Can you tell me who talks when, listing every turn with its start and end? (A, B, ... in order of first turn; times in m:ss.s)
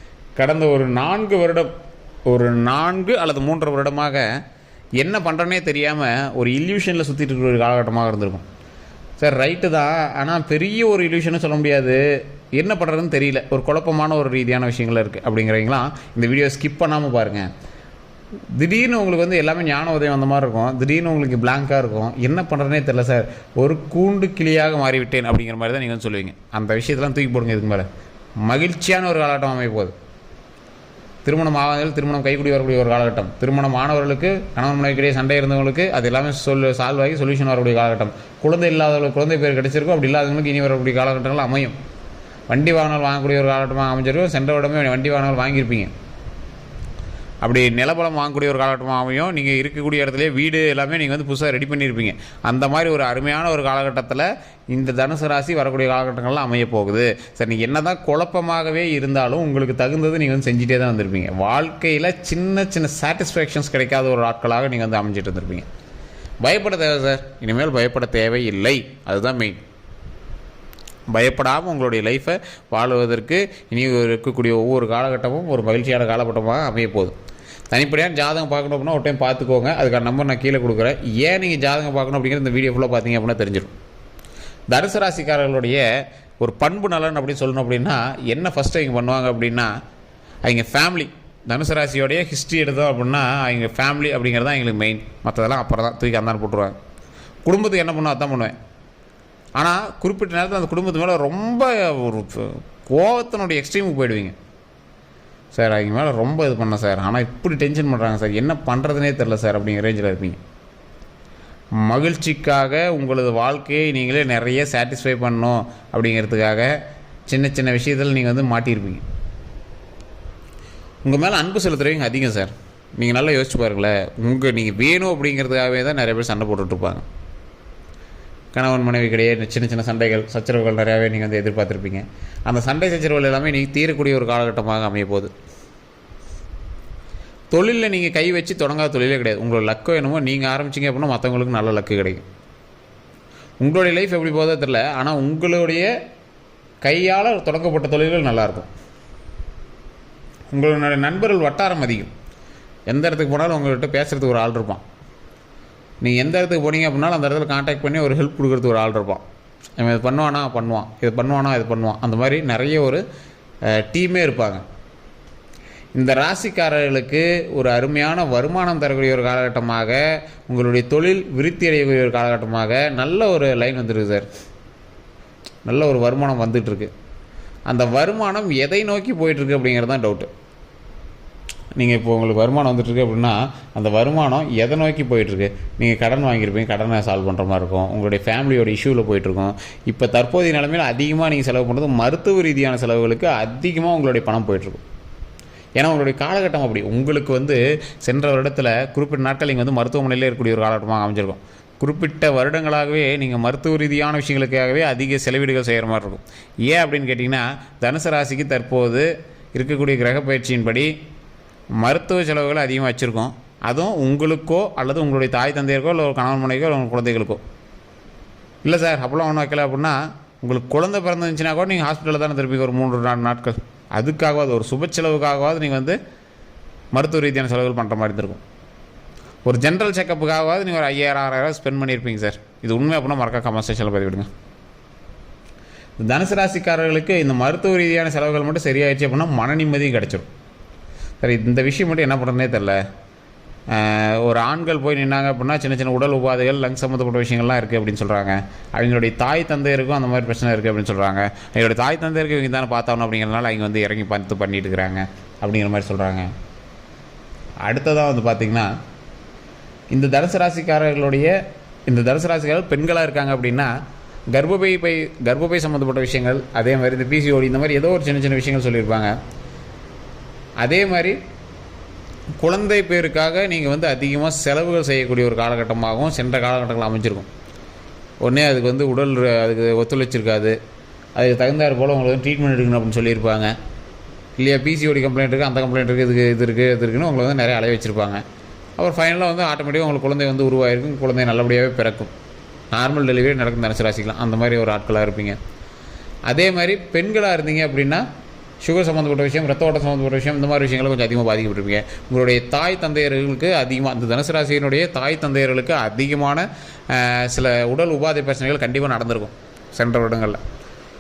0:00.4-0:01.7 A
0:02.3-0:04.3 A
0:05.0-0:08.4 A
0:09.2-0:12.0 A
0:12.5-0:17.5 A
0:18.5-0:27.9 A
0:28.4-0:29.9 A
0:31.2-0:41.8 A
0:42.5-0:45.9 A
0:47.4-1:05.7 A
1:06.4-1:09.6 A
1:11.1-1:17.1 A
1:17.7-1:23.7 A
1:24.7-1:25.8 A
1:26.4-1:29.7 A
1:30.4-1:36.8 A
1:37.5-1:38.6 A
1:39.6-1:44.4 A
1:45.5-1:50.4 A
1:51.8-1:56.7 A
1:57.3-1:59.0 A
2:01.0-2:07.0 A
2:08.5-2:15.3 A
2:17.5-2:22.2 A
2:23.6-2:25.9 A
2:26.8-2:28.7 A
2:30.5-2:32.1 A
2:32.9-2:34.8 A
2:36.0-2:39.2 A
2:39.8-2:43.0 A
2:43.7-2:44.6 A
2:46.0-2:54.3 A
2:55.7-2:56.9 A
2:57.7-3:00.3 A
3:01.8-3:14.8 A
3:15.8-3:30.9 A
3:31.8-3:37.4 A
3:38.6-3:46.0 A
3:46.9-3:48.4 A
3:49.5-3:54.3 A
3:56.0-4:00.3 A
4:01.2-4:02.8 A
4:03.7-4:16.3 A
4:17.6-4:18.7 A
4:19.9-4:21.4 A
4:21.9-4:23.7 A
4:24.3-4:29.1 A
4:30.6-4:31.2 A
4:32.4-4:37.3 A
4:38.2-4:40.6 A
4:41.2-4:43.5 A
4:44.4-4:48.2 A
4:48.8-4:52.1 A
4:52.7-4:55.4 A
4:56.3-4:58.0 A
4:58.6-5:10.4 A